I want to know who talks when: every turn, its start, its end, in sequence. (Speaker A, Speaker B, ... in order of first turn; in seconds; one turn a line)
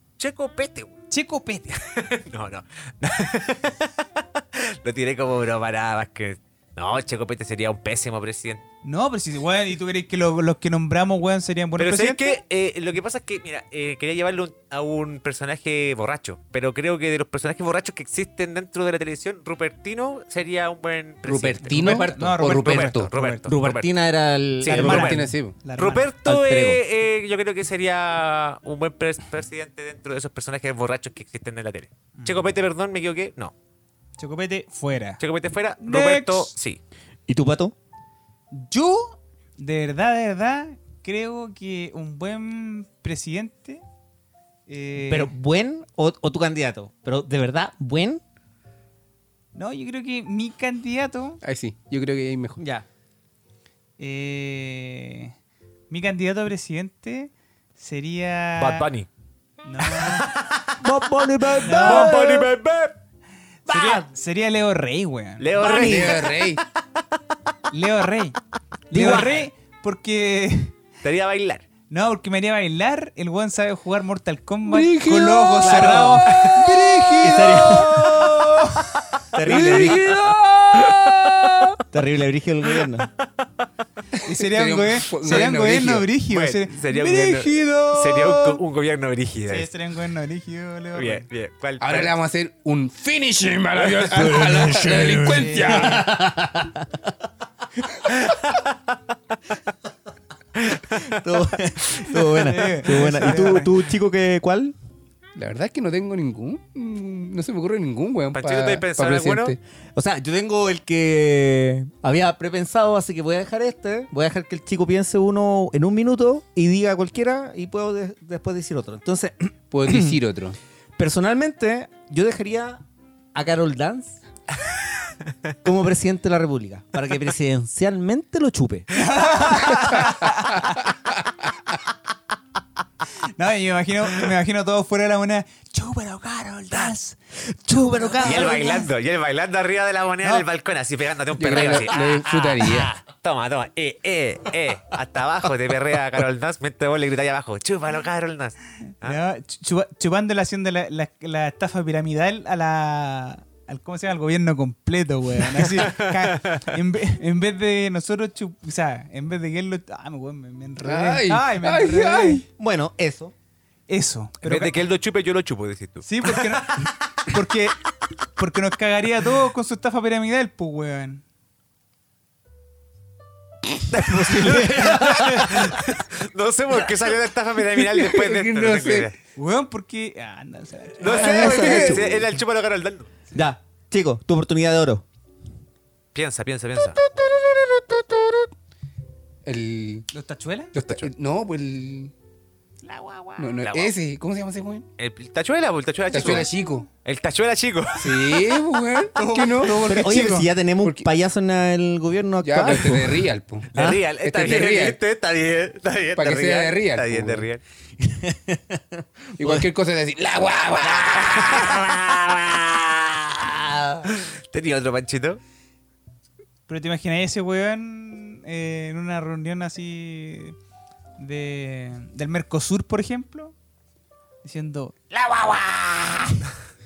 Speaker A: 0.2-0.9
Speaker B: 1.1-1.8
Speaker A: 1.8-8.6
Speaker B: 8.8-12.4
Speaker A: 11.8-23.9
Speaker C: 21.2-23.1
Speaker B: 21.6-23.5
Speaker D: 23.5-25.2
Speaker A: 24.6-25.2
Speaker B: 24.7-26.1
Speaker C: 24.7-25.6
Speaker A: 25.8-33.5
Speaker D: 26.2-26.8
Speaker B: 32.2-32.5
Speaker B: 34.2-35.2
Speaker A: 35.2-36.8
Speaker B: 35.8-36.5
Speaker D: 37.3-37.8
Speaker B: 38.5-43.8
Speaker B: 44.7-45.3
Speaker D: 45.1-48.2
Speaker B: 49.5-51.4
Speaker C: 51.4-52.6
Speaker D: 52.6-52.9
Speaker B: 54.0-55.3
Speaker B: 55.9-58.9
Speaker A: 58.6-59.1
Speaker B: 59.6-60.3
Speaker A: 59.9-60.7
Speaker D: 60.8-62.5
Speaker A: 61.6-63.0
Speaker B: 61.6-62.2
Speaker A: 63.7-64.0
Speaker B: 63.7-65.5
Speaker A: 65.4-66.6
Speaker D: 65.6-66.3
Speaker C: 65.6-66.6
Speaker B: 67.7-68.4
Speaker D: 68.9-69.4
Speaker B: 68.9-70.8
Speaker A: 68.9-69.4
Speaker A: 71.0-71.7
Speaker B: 71.9-79.0
Speaker C: 74.7-78.7
Speaker D: 75.6-76.6
Speaker D: 77.2-78.3
Speaker D: 79.3-80.2
Speaker C: 79.4-81.8
Speaker A: 79.5-80.3
Speaker A: 80.8-81.7
Speaker D: 81.9-83.1
Speaker C: 84.2-86.1
Speaker B: 84.2-88.6
Speaker A: 86.3-89.7
Speaker B: 89.5-91.2
Speaker A: 91.0-92.2
Speaker C: 91.8-96.2
Speaker A: 93.8-95.4
Speaker B: 95.2-96.0
Speaker D: 95.6-97.0
Speaker A: 98.1-98.7
Speaker D: 100.7-104.8
Speaker B: 102.4-103.7
Speaker C: 105.4-109.6
Speaker A: 108.3-109.6
Speaker D: 110.0-120.2
Speaker C: 119.7-120.6
Speaker D: 121.0-124.2
Speaker D: 125.6-128.9
Speaker B: 128.9-130.8
Speaker B: 133.4-137.2
Speaker D: 137.7-138.9
Speaker B: 137.8-138.6
Speaker A: 138.2-149.2
Speaker C: 141.4-142.9
Speaker B: 149.0-162.4
Speaker A: 155.6-156.7
Speaker C: 160.8-162.4
Speaker D: 162.6-163.3
Speaker B: 163.9-164.8
Speaker A: 164.4-166.9
Speaker B: 166.0-167.8
Speaker B: 168.4-171.2
Speaker D: 173.9-175.8
Speaker A: 174.0-179.2
Speaker C: 177.8-179.1
Speaker B: 179.4-181.5
Speaker A: 181.0-183.2
Speaker D: 181.0-182.3
Speaker C: 181.5-182.2
Speaker D: 183.3-185.0
Speaker A: 186.1-187.0
Speaker D: 187.2-188.3
Speaker C: 189.4-190.1
Speaker B: 190.1-190.8
Speaker C: 190.7-192.1
Speaker A: 190.8-191.1
Speaker B: 192.8-193.5
Speaker C: 193.4-194.9
Speaker A: 193.6-193.9
Speaker A: 195.0-196.5
Speaker C: 196.1-196.9
Speaker A: 197.1-198.6
Speaker C: 198.0-199.9
Speaker B: 199.2-200.5
Speaker D: 199.7-204.0
Speaker C: 202.4-205.0
Speaker A: 203.7-207.6
Speaker C: 206.2-207.5
Speaker D: 208.0-209.7
Speaker C: 209.4-211.9
Speaker A: 210.8-213.5
Speaker D: 213.5-214.1
Speaker A: 214.1-215.4
Speaker B: 216.7-220.6
Speaker B: 221.2-223.5
Speaker B: 224.4-224.9
Speaker D: 225.1-226.4